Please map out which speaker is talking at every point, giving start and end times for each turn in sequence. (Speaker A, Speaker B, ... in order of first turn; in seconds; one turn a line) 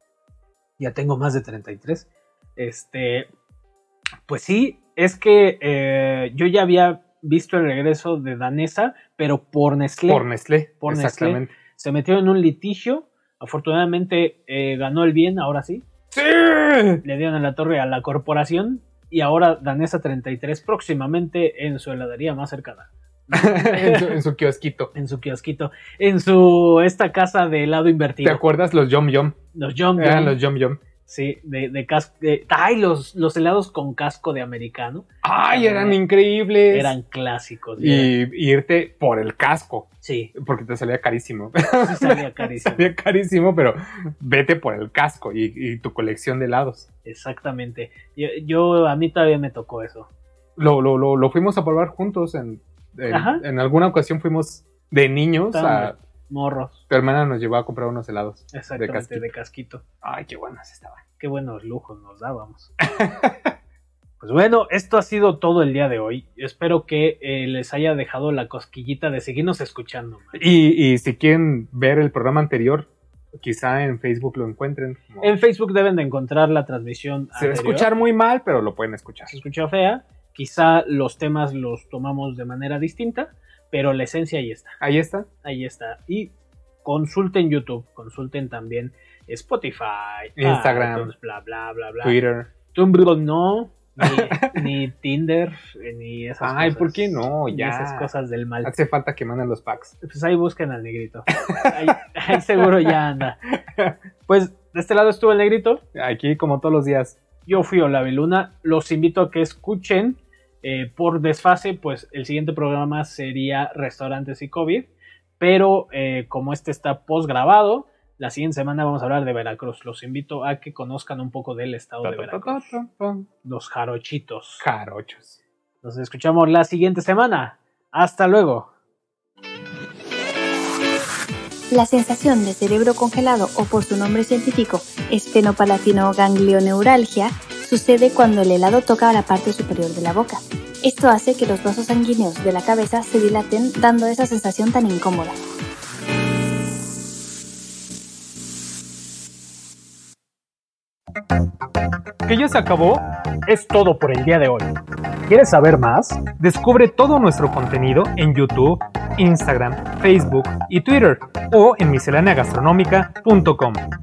Speaker A: 0.8-3.3
Speaker A: 4.3-10.2
Speaker B: 10.1-11.5
Speaker A: 10.8-15.8
Speaker B: 16.1-17.0
Speaker A: 17.0-24.2
Speaker B: 23.3-24.9
Speaker A: 24.9-28.4
Speaker B: 28.2-29.4
Speaker A: 29.5-30.4
Speaker B: 30.0-30.8
Speaker A: 31.1-36.0
Speaker B: 35.2-36.9
Speaker A: 36.7-38.1
Speaker B: 37.8-46.9
Speaker A: 40.0-40.3
Speaker A: 41.8-42.9
Speaker A: 47.0-50.1
Speaker B: 50.6-56.0
Speaker A: 53.1-53.4
Speaker A: 55.5-56.8
Speaker B: 56.9-59.3
Speaker A: 58.5-59.8
Speaker B: 60.0-61.0
Speaker A: 61.2-62.7
Speaker B: 62.9-63.5
Speaker A: 64.2-70.4
Speaker B: 70.3-75.3
Speaker A: 75.2-77.9
Speaker B: 77.4-79.4
Speaker A: 79.3-84.8
Speaker B: 84.8-85.3
Speaker A: 85.4-86.3
Speaker A: 86.8-92.2
Speaker B: 90.4-91.1
Speaker B: 92.0-92.5
Speaker A: 92.7-98.7
Speaker B: 94.0-94.6
Speaker B: 96.4-98.1
Speaker B: 98.6-100.0
Speaker A: 100.0-103.4
Speaker A: 104.3-105.8
Speaker B: 106.0-107.2
Speaker A: 107.5-122.8
Speaker B: 122.0-123.3
Speaker A: 123.4-124.7
Speaker B: 124.6-125.4
Speaker A: 125.8-128.7
Speaker C: 131.7-145.4
Speaker B: 152.2-153.1
Speaker A: 153.5-154.7
Speaker A: 155.3-156.2
Speaker B: 156.4-163.8